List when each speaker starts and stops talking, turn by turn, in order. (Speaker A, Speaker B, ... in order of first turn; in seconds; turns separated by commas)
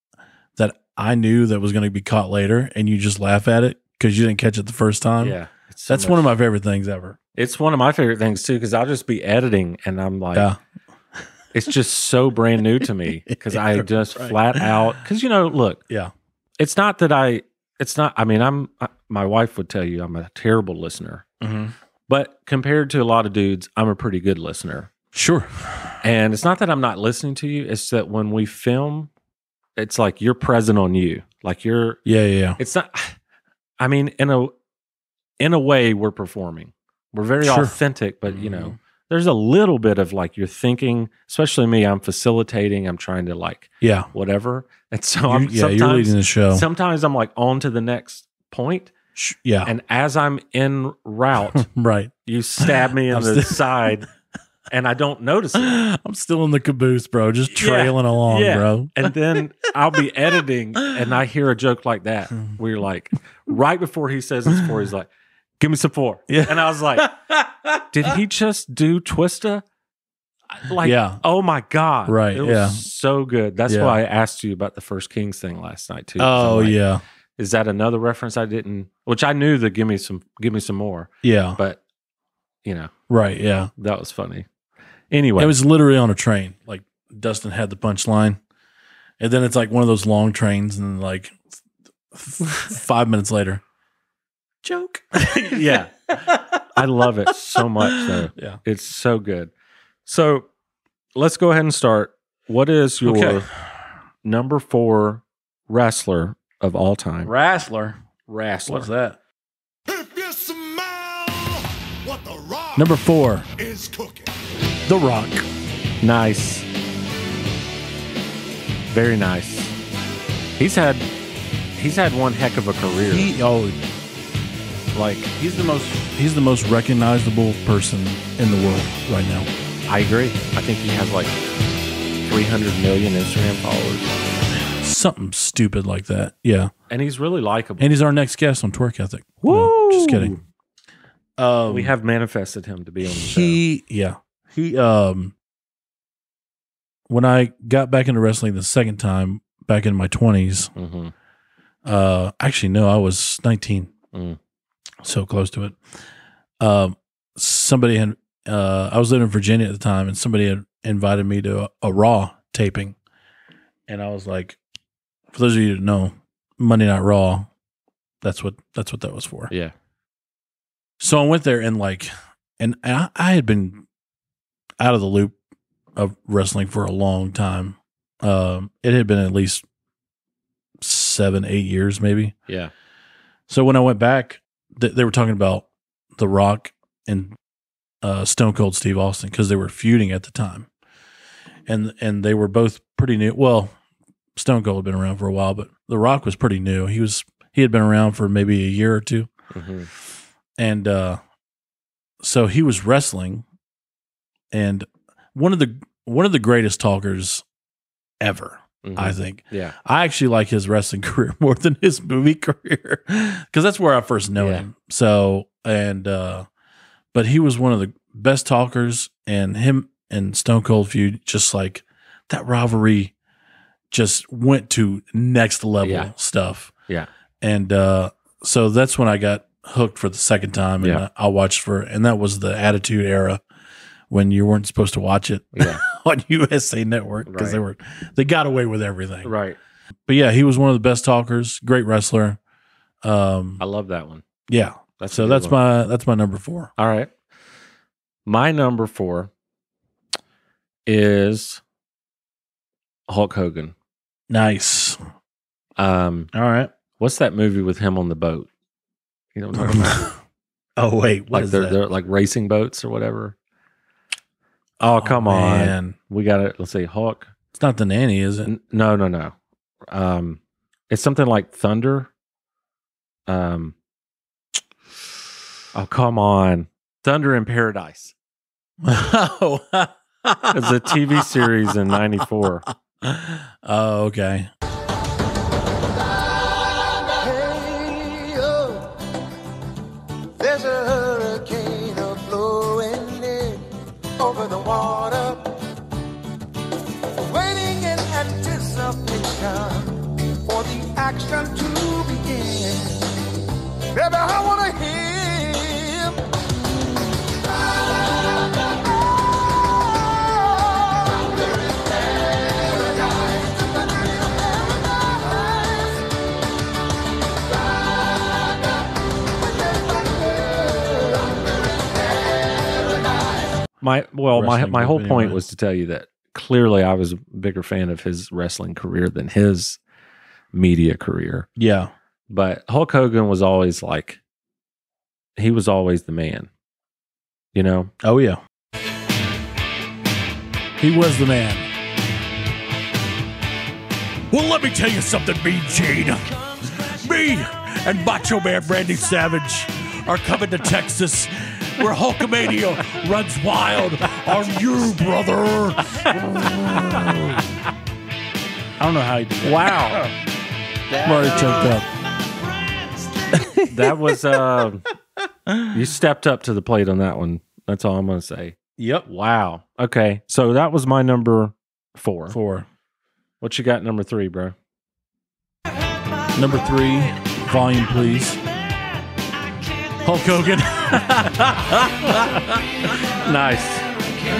Speaker A: 0.6-5.4, Speaker B: 5.2-6.3, Speaker A: 5.9-7.2, Speaker B: 7.3-10.5, Speaker B: 11.5-15.8, Speaker A: 13.5-14.6, Speaker B: 16.6-21.2, Speaker A: 21.4-21.7, Speaker B: 22.1-24.9, Speaker A: 25.1-25.9, Speaker B: 26.0-29.1, Speaker B: 29.8-32.0, Speaker A: 32.0-32.6, Speaker B: 32.6-33.2, Speaker B: 33.8-34.5, Speaker B: 35.4-48.9, Speaker A: 37.4-37.7, Speaker A: 38.3-38.7, Speaker A: 43.8-44.1, Speaker A: 45.3-46.6, Speaker A: 49.1-49.7, Speaker B: 49.6-51.7, Speaker A: 51.5-54.0, Speaker B: 52.2-54.1, Speaker B: 54.7-55.8, Speaker A: 55.6-59.1, Speaker B: 57.5-65.1, Speaker B: 65.6-67.1, Speaker A: 66.3-68.2, Speaker B: 67.9-69.6, Speaker B: 70.5-76.8, Speaker A: 70.8-71.2, Speaker A: 72.0-72.8, Speaker A: 73.7-74.0, Speaker A: 76.2-77.0, Speaker B: 77.4-81.8, Speaker A: 81.2-81.6, Speaker B: 82.6-82.9, Speaker A: 83.1-83.7, Speaker B: 83.8-84.5, Speaker B: 85.1-85.5, Speaker A: 85.4-88.4, Speaker A: 89.2-91.4, Speaker A: 92.1-93.6, Speaker A: 94.6-96.6, Speaker B: 95.4-96.2, Speaker B: 96.7-99.5, Speaker A: 97.6-98.6, Speaker B: 100.0-100.5, Speaker B: 101.1-103.5, Speaker A: 103.0-103.5, Speaker B: 104.2-107.3, Speaker A: 107.2-108.0, Speaker B: 108.3-108.9, Speaker A: 108.7-109.2, Speaker C: 109.9-113.0, Speaker A: 112.8-113.5, Speaker C: 113.5-114.3, Speaker A: 114.9-115.5, Speaker B: 116.0-116.7, Speaker B: 118.9-119.7, Speaker B: 120.6-121.1, Speaker B: 121.8-123.3, Speaker A: 123.1-123.8, Speaker B: 124.9-125.3, Speaker A: 125.3-129.5, Speaker B: 129.9-131.3, Speaker B: 132.2-134.3, Speaker A: 134.7-136.7, Speaker B: 136.9-137.9, Speaker A: 137.8-140.4, Speaker B: 139.4-140.4, Speaker A: 141.4-141.9, Speaker B: 141.7-143.6, Speaker A: 143.1-145.3, Speaker A: 147.1-150.7, Speaker B: 150.7-151.1, Speaker A: 151.8-153.9, Speaker B: 154.1-154.4, Speaker A: 155.0-155.8, Speaker A: 156.6-162.9, Speaker A: 163.9-164.6, Speaker A: 165.3-167.5, Speaker A: 168.2-169.5, Speaker A: 171.0-173.8, Speaker A: 174.8-175.3, Speaker A: 175.9-179.6, Speaker A: 180.8-182.3, Speaker A: 183.5-187.4, Speaker A: 188.0-190.7, Speaker A: 191.7-193.7, Speaker A: 194.3-199.3, Speaker B: 199.5-199.9, Speaker A: 200.6-201.2, Speaker A: 202.2-203.4, Speaker A: 204.5-207.4, Speaker A: 208.2-216.5, Speaker B: 208.8-209.8, Speaker B: 214.4-214.7, Speaker A: 217.1-223.1, Speaker A: 223.9-226.7, Speaker B: 225.8-226.1, Speaker A: 227.4-233.4, Speaker B: 230.8-231.0, Speaker A: 234.1-239.3, Speaker B: 235.5-235.8, Speaker B: 237.2-237.6, Speaker B: 239.2-239.6, Speaker A: 240.1-242.4, Speaker A: 243.0-243.6, Speaker B: 243.6-244.2, Speaker A: 244.5-246.7, Speaker B: 245.0-245.6, Speaker B: 246.8-247.1, Speaker B: 248.2-249.3, Speaker B: 250.8-251.6, Speaker B: 253.1-253.7, Speaker A: 254.3-255.0, Speaker B: 255.8-256.3, Speaker A: 256.3-256.7, Speaker B: 257.0-258.5, Speaker B: 259.3-260.1, Speaker A: 259.6-260.1, Speaker A: 260.8-261.8, Speaker B: 261.3-263.3, Speaker B: 264.8-267.3, Speaker A: 265.0-265.9, Speaker A: 267.5-268.5, Speaker B: 268.4-269.3, Speaker B: 269.9-272.1, Speaker B: 273.3-273.7, Speaker B: 275.7-278.1, Speaker A: 278.8-282.0, Speaker B: 280.5-282.6, Speaker A: 283.0-284.5, Speaker D: 287.2-288.7, Speaker D: 290.4-293.5, Speaker D: 294.2-295.2, Speaker D: 297.3-299.8, Speaker D: 300.5-302.8, Speaker D: 304.0-304.3, Speaker B: 323.8-329.8, Speaker A: 324.3-325.4, Speaker B: 330.5-331.5, Speaker A: 331.6-331.9, Speaker B: 332.3-334.2, Speaker B: 335.4-336.5, Speaker B: 337.5-337.9, Speaker A: 338.0-338.4, Speaker A: 340.8-341.7, Speaker A: 344.3-357.6, Speaker B: 356.0-357.2, Speaker A: 358.8-360.1, Speaker B: 359.4-360.1, Speaker A: 360.9-361.9, Speaker A: 363.3-364.2, Speaker B: 363.6-364.8, Speaker A: 365.5-365.7, Speaker B: 365.7-372.4, Speaker A: 368.8-369.1, Speaker A: 372.3-372.7, Speaker B: 373.4-374.5, Speaker A: 376.3-378.4, Speaker A: 380.0-382.7, Speaker B: 381.1-383.9